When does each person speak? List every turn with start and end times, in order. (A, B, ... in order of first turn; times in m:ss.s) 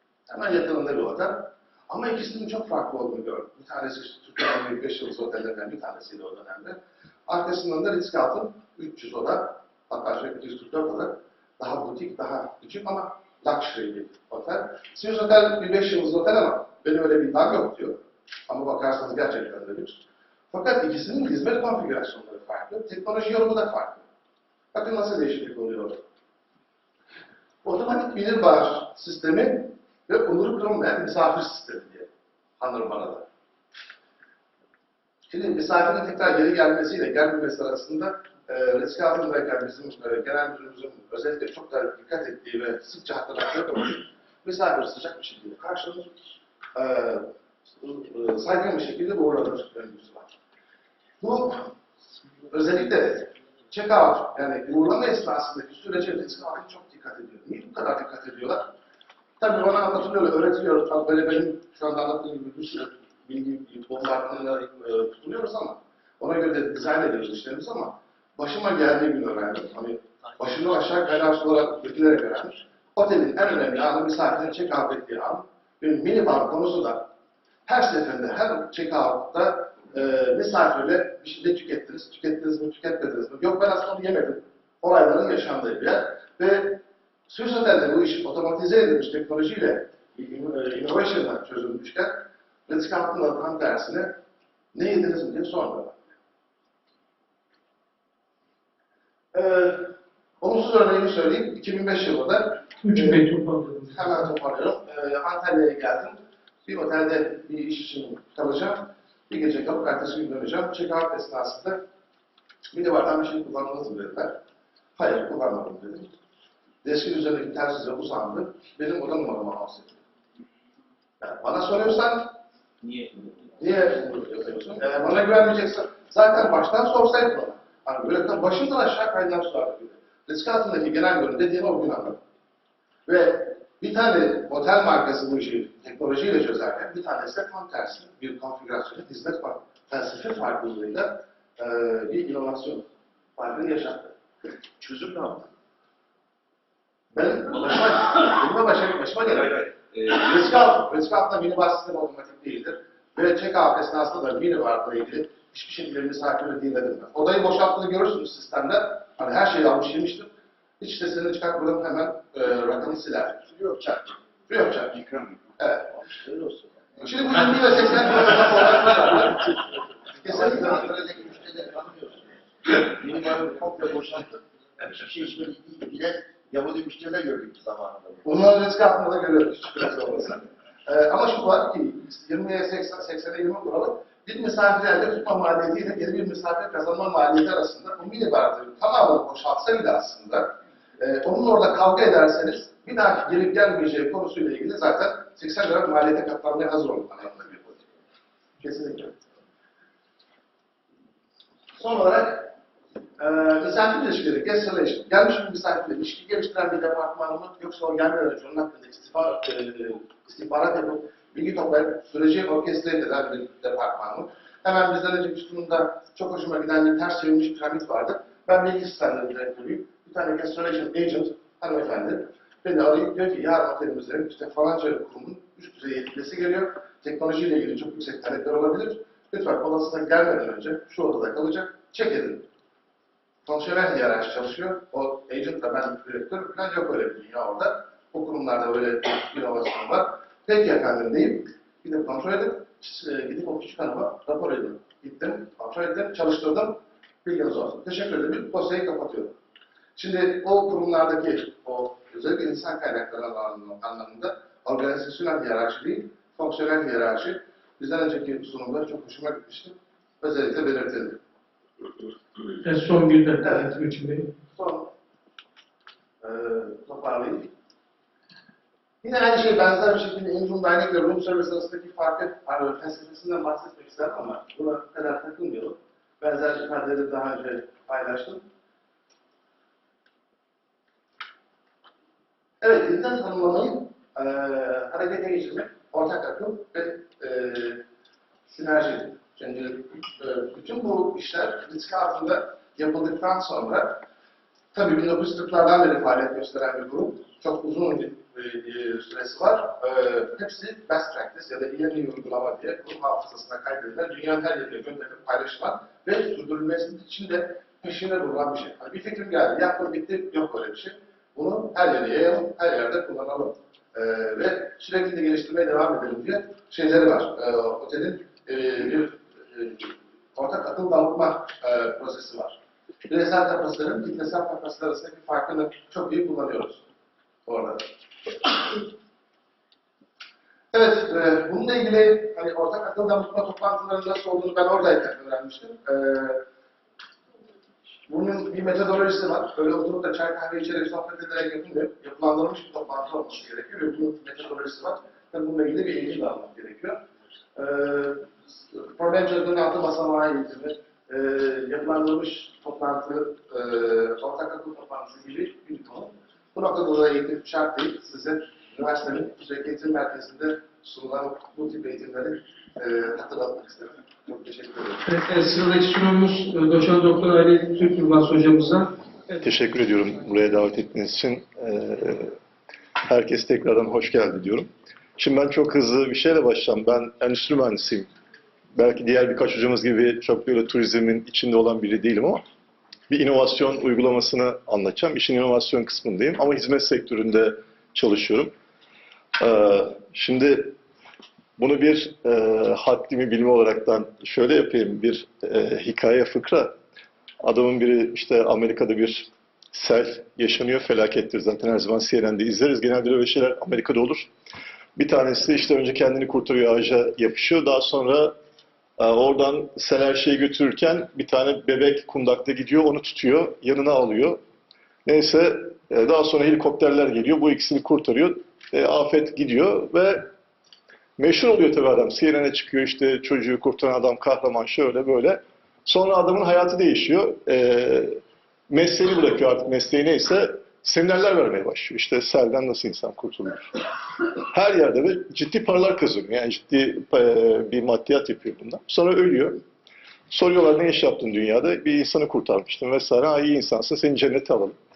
0:00.3-0:24.0 A
0:24.7-0:26.0 A
0:27.6-0:33.3 A
0:35.3-0:46.1 A
0:46.7-0:50.3 A
0:51.2-0:51.7 A
0:52.5-0:58.7 A
0:59.4-1:17.1 A
1:17.6-1:34.2 A
1:34.7-1:36.0 A
1:39.3-1:43.3 A
1:42.8-1:44.0 B
1:43.8-1:51.8 A
1:52.7-1:54.4 A
1:55.0-1:56.1 A
1:56.8-2:00.0 A
2:01.2-2:02.4 A
2:03.6-2:12.2 A
2:13.0-2:24.1 A
2:24.8-2:25.5 C
2:27.2-2:43.4 A
2:43.4-2:44.2 C
2:44.5-2:45.0 A
2:44.9-2:45.5 C
2:45.6-2:45.9 A
2:46.0-2:47.0 C
2:47.0-2:50.9 A
2:50.2-2:58.2 C
2:58.2-3:17.8 A
3:18.6-3:19.2 A
3:21.7-3:22.5 A
3:23.2-3:52.4 A
3:53.4-4:09.4 A
4:10.0-4:21.2 A
4:22.6-4:24.3 B
4:24.5-4:24.9 A
4:26.2-4:27.5 A
4:29.0-4:38.4 A
4:42.6-4:47.8 A
4:48.5-4:54.0 A
4:54.7-5:22.6 A
5:23.1-5:26.8 A
5:27.4-5:27.9 A
5:28.4-5:28.8 A
5:30.7-5:36.4 A
5:38.1-5:47.0 A
5:47.6-6:05.0 A
6:05.0-6:08.9 B
6:09.4-6:12.3 D
6:13.1-6:18.1 D
6:18.8-6:22.4 D
6:23.1-6:28.5 D
6:29.4-6:30.8 D
6:31.6-6:36.7 D
6:37.4-6:44.3 D
6:45.0-6:48.3 D
6:49.0-6:54.4 D
6:55.0-7:00.3 D
7:01.2-7:13.6 D
7:14.4-7:19.6 D
7:20.3-7:24.8 D